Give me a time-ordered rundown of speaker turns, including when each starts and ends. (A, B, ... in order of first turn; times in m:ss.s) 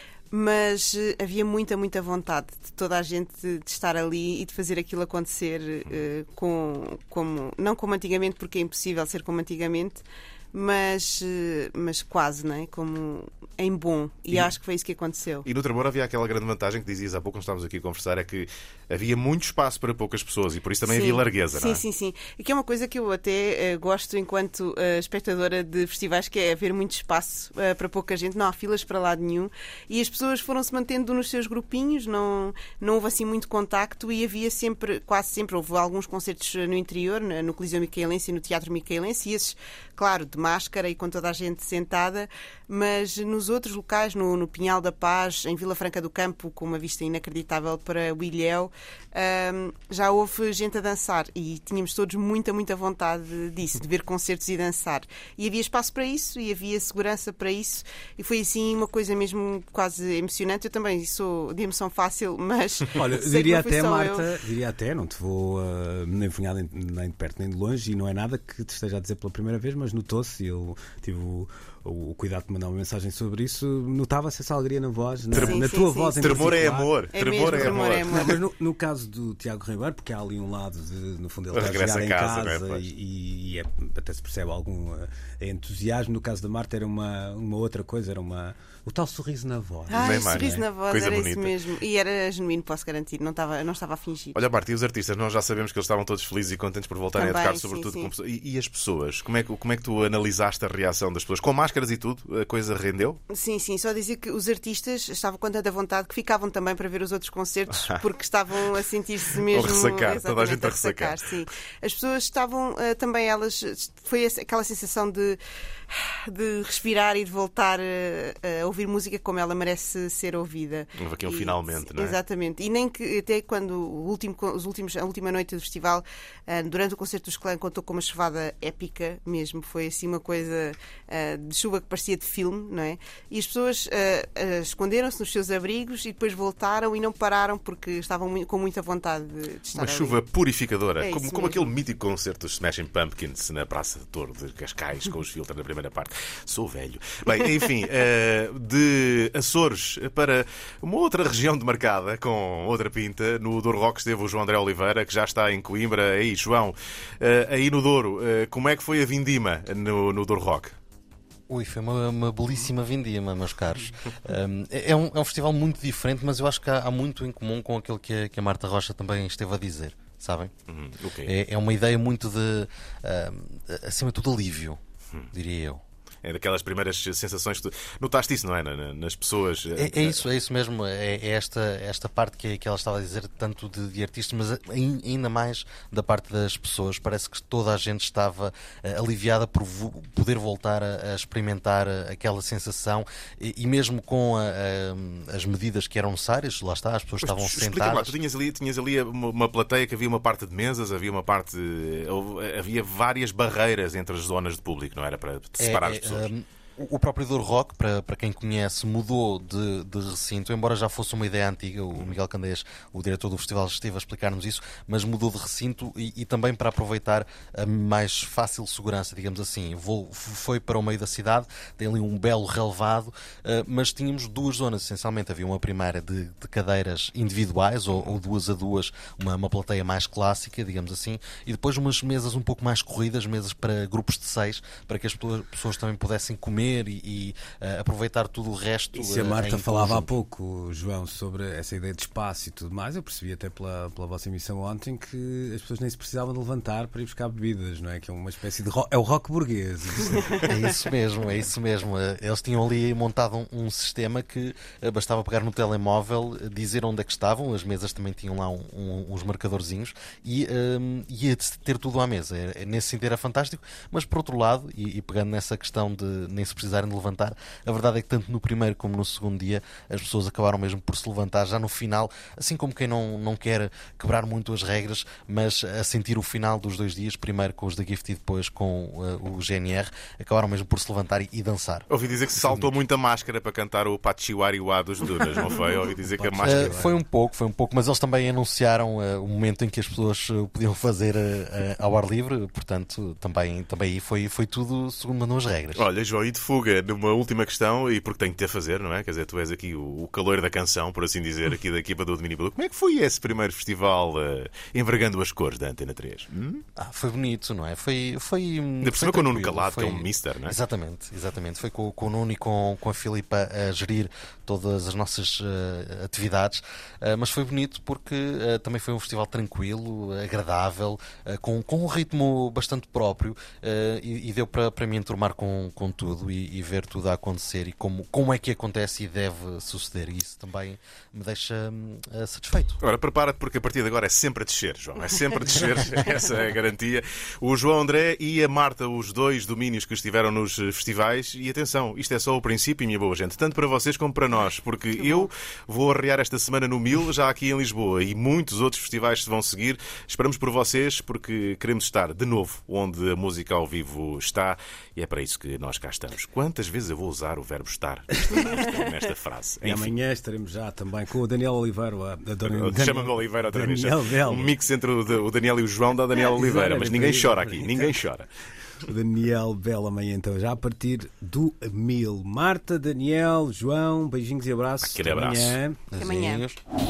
0:00.3-0:15.5 A
0:14.3-0:14.6 B
0:15.4-0:21.8 B
0:20.8-1:04.3 A
1:02.9-1:30.6 C
1:15.3-1:15.6 B
1:15.3-1:16.5 A
1:16.2-1:18.4 B
1:17.1-1:18.4 A
1:21.5-1:22.8 B
1:29.9-1:34.4 A
1:29.9-1:31.6 B
1:34.3-1:43.2 B
1:37.2-1:38.1 A
1:43.3-2:20.2 A
1:47.7-1:48.0 B
1:49.4-1:51.2 B
2:01.0-2:02.2 B
2:19.7-2:40.7 B
2:21.0-2:21.7 A
2:41.5-2:50.5 D
2:50.7-2:51.3 B
2:51.2-2:54.8 D
2:55.3-2:55.8 D
2:56.2-3:00.2 B
2:59.8-3:18.2 D
3:17.2-3:26.3 B
3:25.6-4:00.1 D
3:58.9-4:10.5 C
4:10.4-4:41.9 D
4:41.9-4:46.8 B
4:42.4-4:42.7 D
4:45.9-4:47.0 C
4:46.4-4:55.8 D
4:55.7-5:06.6 B
5:06.8-5:32.8 D
5:08.8-5:10.6 B
5:32.8-6:00.0 B
5:45.0-5:45.3 A
5:59.6-6:04.5 C
6:02.4-6:08.3 B
6:06.1-6:08.0 C
6:08.8-6:15.8 C
6:14.8-6:15.6 B
6:15.9-6:16.6 D
6:16.0-6:16.5 A